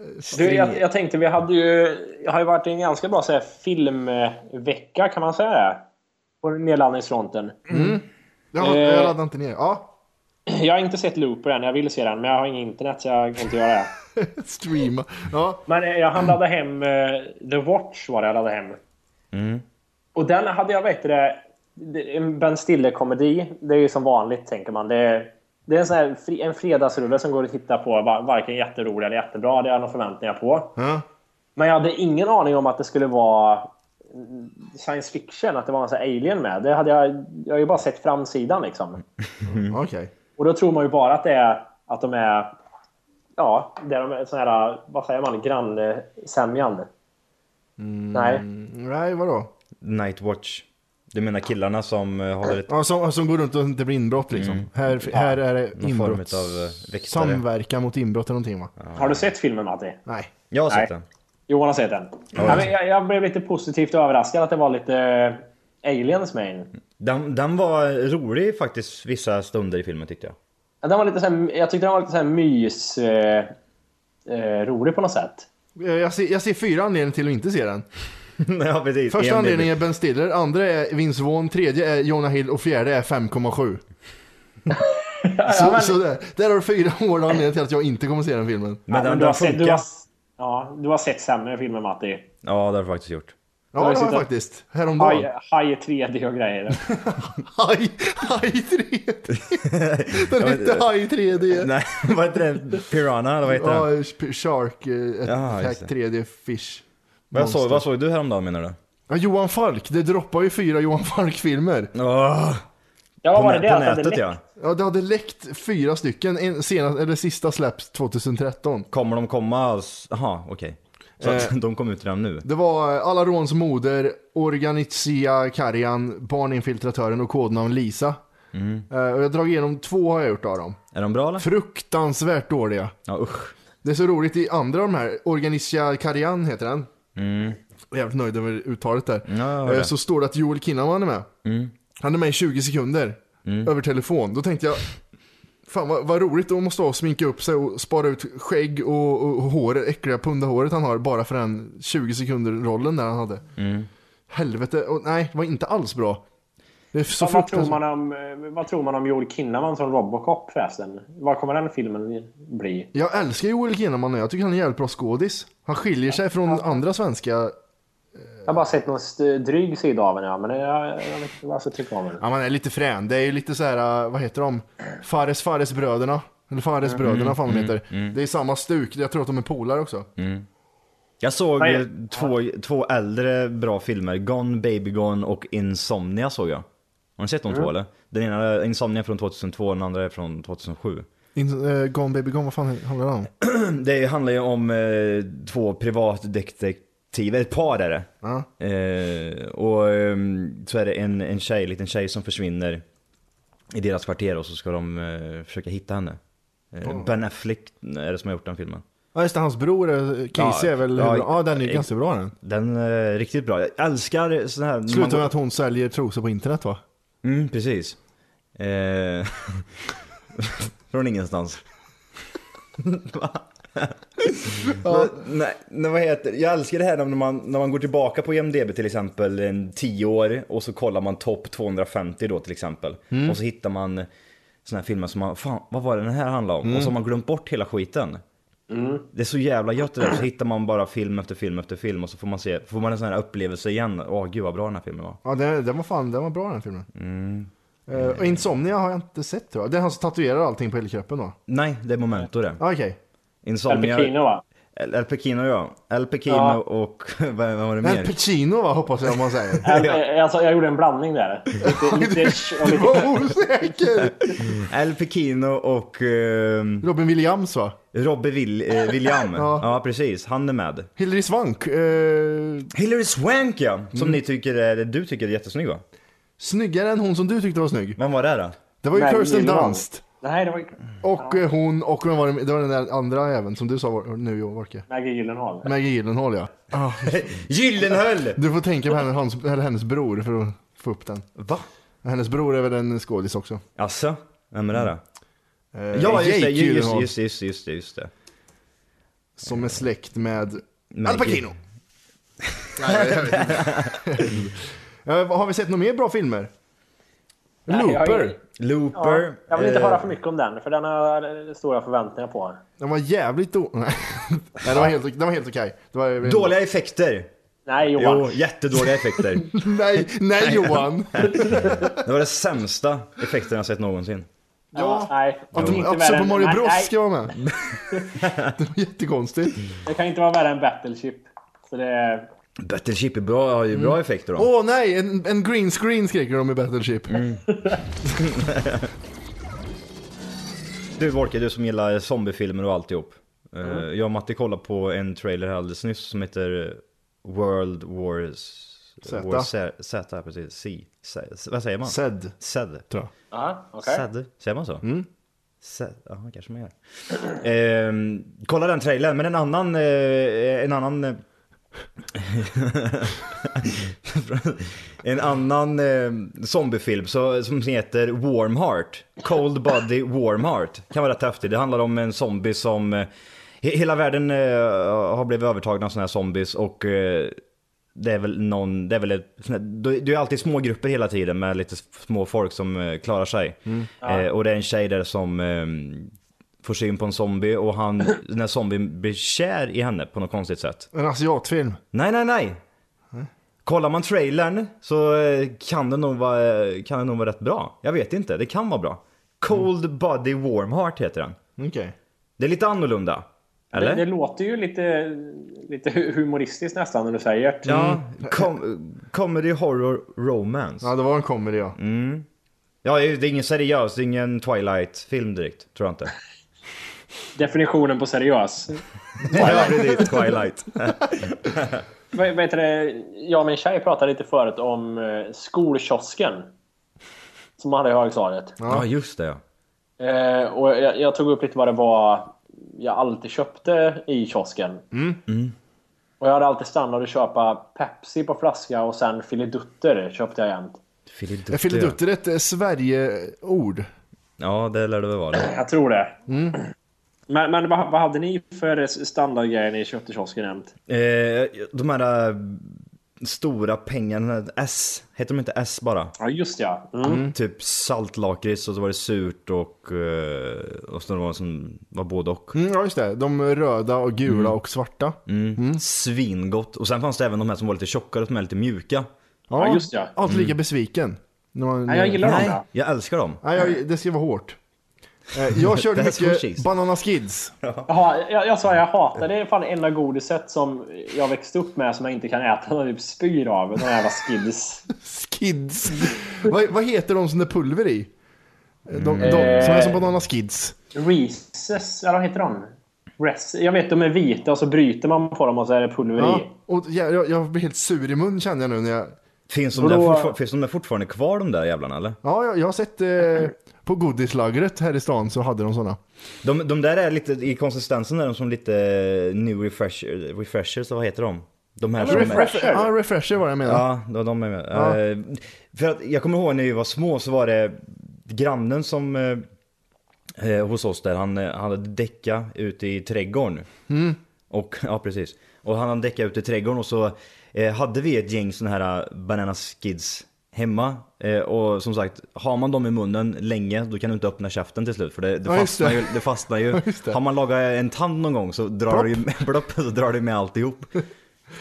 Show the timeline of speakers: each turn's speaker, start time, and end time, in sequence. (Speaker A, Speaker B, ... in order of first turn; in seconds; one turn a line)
Speaker A: 0.1-0.8
Speaker B: 0.3-5.8
Speaker B: 6.4-8.0
Speaker A: 7.7-9.9
Speaker B: 8.6-9.2
Speaker B: 10.5-13.9
Speaker A: 14.2-15.6
Speaker B: 15.7-18.8
Speaker C: 19.3-19.6
Speaker B: 20.2-30.8
Speaker A: 30.8-31.1
Speaker B: 31.6-39.0
Speaker A: 39.5-40.1
Speaker B: 40.4-42.6
Speaker B: 43.4-46.9
Speaker A: 47.8-49.5
Speaker B: 48.1-48.4
Speaker C: 49.8-52.7
Speaker A: 52.7-58.7
Speaker C: 54.4-57.4
Speaker C: 58.8-59.2
Speaker B: 59.0-60.0
Speaker A: 60.1-60.3
Speaker C: 60.5-61.0
Speaker B: 61.5-66.7
Speaker C: 62.4-62.7
Speaker C: 67.0-70.3
Speaker B: 70.8-73.5
Speaker B: 74.3-75.5
Speaker A: 75.8-77.9
Speaker C: 78.4-79.7
Speaker A: 79.1-83.8
Speaker B: 84.7-86.0
Speaker A: 85.5-88.8
Speaker C: 88.9-89.8
Speaker B: 88.9-92.3
Speaker C: 92.4-93.3
Speaker A: 93.7-95.3
Speaker B: 93.8-94.3
Speaker B: 95.0-96.8
Speaker A: 96.8-101.7
Speaker C: 99.3-100.9
Speaker C: 101.5-103.9
Speaker A: 103.5-107.8
Speaker C: 105.3-105.9
Speaker C: 107.3-108.8
Speaker A: 109.1-111.9
Speaker C: 112.0-112.6
Speaker B: 113.2-114.3
Speaker C: 113.3-114.4
Speaker A: 114.6-118.9
Speaker C: 118.9-122.5
Speaker A: 121.2-121.5
Speaker A: 122.4-128.2
Speaker C: 128.5-128.9
Speaker A: 128.9-130.8
Speaker C: 130.9-131.5
Speaker A: 131.4-132.9
Speaker C: 133.1-133.5
Speaker A: 133.8-136.9
Speaker C: 137.2-137.6
Speaker A: 137.9-141.3
Speaker C: 139.3-139.9
Speaker C: 141.4-141.7
Speaker A: 142.0-144.9
Speaker C: 143.5-143.7
Speaker A: 145.7-153.4
Speaker C: 153.6-153.9
Speaker A: 154.3-156.2
Speaker A: 156.9-157.8
Speaker B: 157.2-162.9
Speaker A: 162.9-167.5
Speaker B: 166.5-166.8
Speaker B: 168.5-172.2
Speaker A: 172.2-180.1
Speaker C: 177.0-178.2
Speaker C: 180.2-180.5
Speaker C: 181.2-186.7
Speaker B: 181.6-182.3
Speaker C: 187.2-191.1
Speaker A: 191.4-193.3
Speaker C: 193.4-198.1
Speaker A: 198.2-198.5
Speaker C: 198.6-202.8
Speaker C: 203.7-206.2
Speaker C: 206.7-208.8
Speaker A: 206.8-207.1
Speaker A: 209.2-212.3
Speaker C: 210.4-211.9
Speaker C: 212.4-215.3
Speaker A: 214.9-216.8
Speaker C: 217.2-218.0
Speaker C: 218.6-219.7
Speaker C: 220.4-221.6
Speaker C: 222.8-234.1
Speaker A: 224.7-225.2
Speaker A: 233.1-233.4
Speaker C: 234.7-238.2
Speaker A: 236.6-236.9
Speaker B: 238.7-239.1
Speaker C: 239.1-245.2
Speaker A: 245.2-246.9
Speaker C: 246.9-248.4
Speaker A: 247.9-251.4
Speaker C: 251.5-252.6
Speaker A: 252.6-253.0
Speaker C: 253.4-254.1
Speaker B: 253.7-254.4
Speaker C: 254.8-258.1
Speaker B: 256.3-256.6
Speaker A: 257.8-259.7
Speaker B: 259.6-263.1
Speaker C: 259.6-260.0
Speaker A: 261.6-264.6
Speaker C: 264.4-266.9
Speaker A: 266.8-267.8
Speaker C: 267.9-270.9
Speaker A: 269.3-269.7
Speaker A: 271.0-272.7
Speaker C: 272.7-275.8
Speaker A: 273.9-274.2
Speaker A: 276.4-278.0
Speaker C: 278.0-278.6
Speaker A: 278.8-280.0
Speaker B: 278.9-281.4
Speaker A: 281.0-284.9
Speaker B: 284.9-285.7
Speaker A: 285.6-287.2
Speaker C: 287.0-288.4
Speaker A: 288.3-291.3
Speaker C: 291.4-291.7
Speaker A: 292.0-293.6
Speaker C: 293.8-295.0
Speaker A: 295.7-297.1
Speaker C: 295.9-298.1
Speaker A: 299.4-301.6
Speaker C: 300.9-301.5
Speaker C: 302.5-304.3
Speaker A: 302.8-306.5
Speaker A: 307.7-308.4
Speaker B: 307.7-308.4
Speaker C: 308.6-310.1
Speaker B: 308.9-312.6
Speaker A: 312.8-316.5
Speaker C: 316.2-317.3
Speaker B: 317.7-318.4
Speaker C: 318.0-319.5
Speaker A: 319.5-321.9
Speaker C: 320.5-324.3
Speaker B: 321.3-321.9
Speaker A: 324.7-327.5
Speaker B: 324.8-326.9
Speaker C: 325.6-325.8
Speaker C: 328.2-328.6
Speaker A: 328.6-329.6
Speaker B: 329.9-332.3
Speaker C: 332.6-334.5
Speaker A: 333.7-337.2
Speaker C: 337.1-337.4
Speaker B: 337.5-337.8
Speaker C: 338.1-338.9
Speaker C: 341.0-352.9
Speaker A: 349.1-349.5
Speaker A: 351.9-352.3
Speaker B: 353.3-354.0
Speaker C: 353.8-354.8
Speaker A: 354.8-355.1
Speaker C: 355.6-361.2
Speaker C: 362.1-373.1
Speaker C: 373.6-377.4
Speaker C: 378.0-386.1
Speaker B: 384.0-384.3
Speaker C: 386.6-390.9
Speaker A: 390.9-391.8
Speaker C: 391.9-392.6
Speaker C: 393.6-401.4
Speaker A: 401.6-401.9
Speaker C: 402.4-404.1
Speaker B: 403.7-407.9
Speaker C: 407.7-410.9
Speaker A: 407.7-408.4
Speaker A: 410.8-411.8
Speaker C: 411.8-412.3
Speaker C: 412.8-416.1
Speaker B: 417.4-420.1
Speaker A: 419.3-420.1
Speaker C: 419.3-421.8
Speaker B: 422.1-426.5
Speaker B: 427.6-428.6
Speaker A: 428.6-428.9
Speaker C: 428.7-429.4
Speaker B: 430.0-434.8
Speaker A: 434.9-435.2
Speaker C: 435.3-435.6
Speaker B: 436.2-440.8
Speaker C: 441.1-442.0
Speaker A: 441.5-443.9
Speaker C: 444.4-445.5
Speaker B: 445.4-446.1
Speaker A: 446.3-446.6
Speaker B: 447.3-450.7
Speaker C: 450.9-456.1
Speaker B: 456.2-457.2
Speaker A: 457.0-457.4
Speaker C: 457.3-462.6
Speaker A: 462.5-465.8
Speaker C: 464.3-464.6
Speaker C: 465.3-469.1
Speaker A: 469.5-472.5
Speaker B: 469.6-470.1
Speaker C: 470.3-470.6
Speaker B: 471.9-472.6
Speaker C: 472.2-473.4
Speaker A: 473.4-474.6
Speaker A: 475.3-477.5
Speaker C: 475.6-476.7
Speaker C: 477.6-477.9
Speaker B: 477.9-484.8
Speaker A: 485.0-488.1
Speaker A: 488.9-490.8
Speaker C: 488.9-489.7
Speaker B: 489.2-490.0
Speaker B: 490.9-496.5
Speaker A: 496.2-499.1
Speaker C: 499.5-502.2
Speaker B: 499.8-500.3
Speaker A: 502.2-506.0
Speaker C: 506.4-512.5
Speaker B: 512.0-512.9
Speaker A: 512.1-513.9
Speaker C: 513.6-519.4
Speaker A: 514.7-515.0
Speaker C: 520.4-523.7
Speaker A: 523.9-524.2
Speaker C: 524.5-541.0
Speaker A: 535.5-537.2
Speaker A: 538.9-539.2